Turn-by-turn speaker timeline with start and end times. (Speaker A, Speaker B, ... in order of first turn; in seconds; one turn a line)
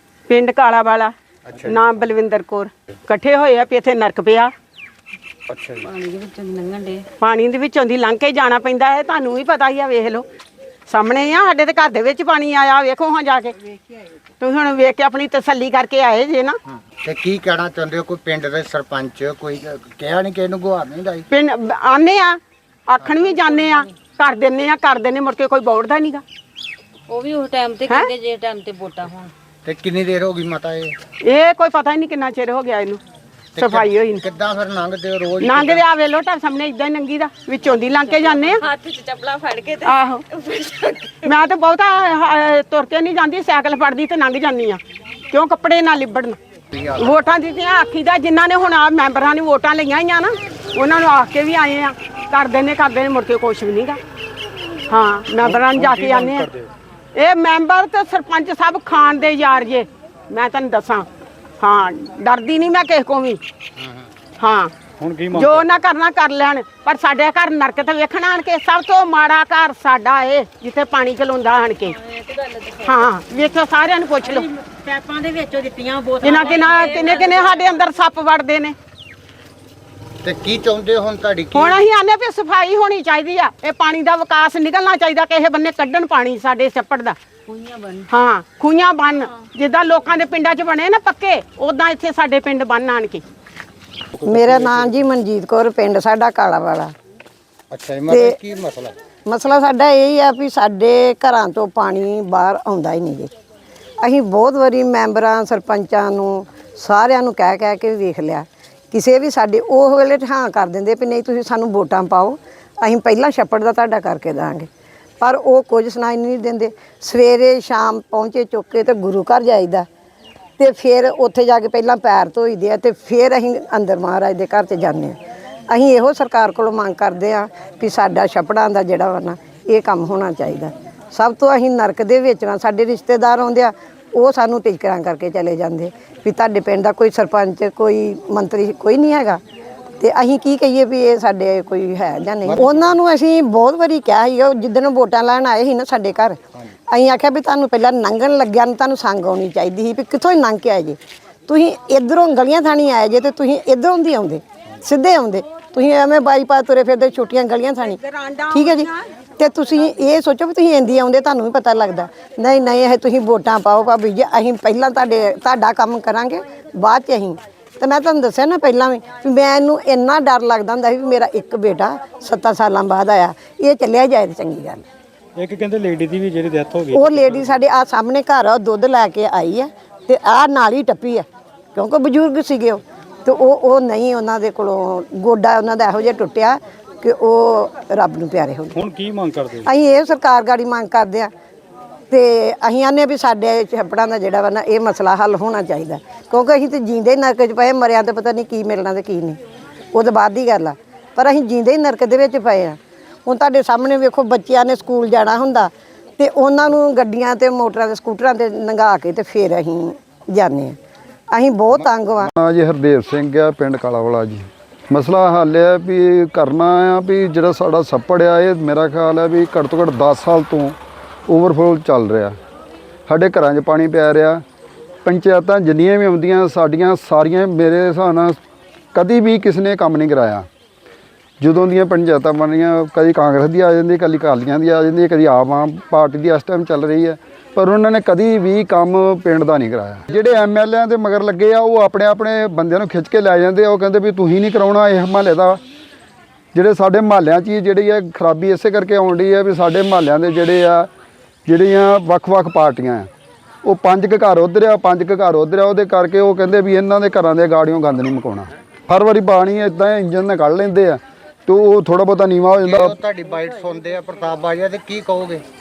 Speaker A: 0.3-4.5
Speaker B: 1.4-1.8
Speaker B: 5.5-5.9
Speaker C: 5.8-7.1
Speaker A: 7.2-10.2
Speaker A: 10.9-13.7
Speaker A: 14.4-16.6
Speaker B: 17.0-21.3
Speaker A: 21.3-26.2
Speaker C: 27.1-29.3
Speaker B: 29.6-30.9
Speaker A: 31.2-33.0
Speaker A: 33.5-34.2
Speaker B: 33.5-35.8
Speaker A: 35.4-38.6
Speaker C: 38.6-39.9
Speaker A: 39.8-44.8
Speaker A: 45.3-54.0
Speaker A: 54.9-56.5
Speaker D: 55.4-56.7
Speaker A: 57.1-61.1
Speaker A: 61.6-63.4
Speaker B: 63.8-64.1
Speaker A: 64.4-64.7
Speaker D: 65.0-65.7
Speaker A: 65.3-72.0
Speaker C: 72.2-72.8
Speaker A: 72.8-74.5
Speaker C: 74.3-77.7
Speaker A: 76.2-78.7
Speaker B: 80.2-81.7
Speaker A: 81.5-87.2
Speaker C: 87.5-88.0
Speaker A: 88.1-93.2
Speaker E: 94.2-96.9
Speaker D: 94.3-94.9
Speaker B: 97.7-99.0
Speaker E: 98.1-98.4
Speaker E: 99.2-103.3
Speaker E: 104.0-114.7
Speaker E: 115.2-119.9
Speaker E: 120.6-125.2
Speaker E: 125.7-139.4
Speaker E: 140.0-158.0
Speaker B: 142.4-142.9
Speaker A: 158.0-159.0
Speaker E: 158.5-174.8
Speaker D: 175.4-177.5
Speaker E: 176.9-188.8
Speaker D: 188.7-189.7
Speaker E: 189.6-191.3
Speaker E: 192.1-199.4
Speaker E: 199.9-210.8
Speaker E: 211.3-212.3
Speaker F: 212.2-220.8
Speaker F: 221.3-222.4
Speaker F: 223.1-224.4
Speaker F: 225.0-228.4
Speaker F: 228.9-230.5
Speaker F: 231.4-245.6
Speaker F: 246.5-250.9
Speaker F: 251.5-253.1
Speaker F: 253.6-263.0
Speaker B: 262.6-265.4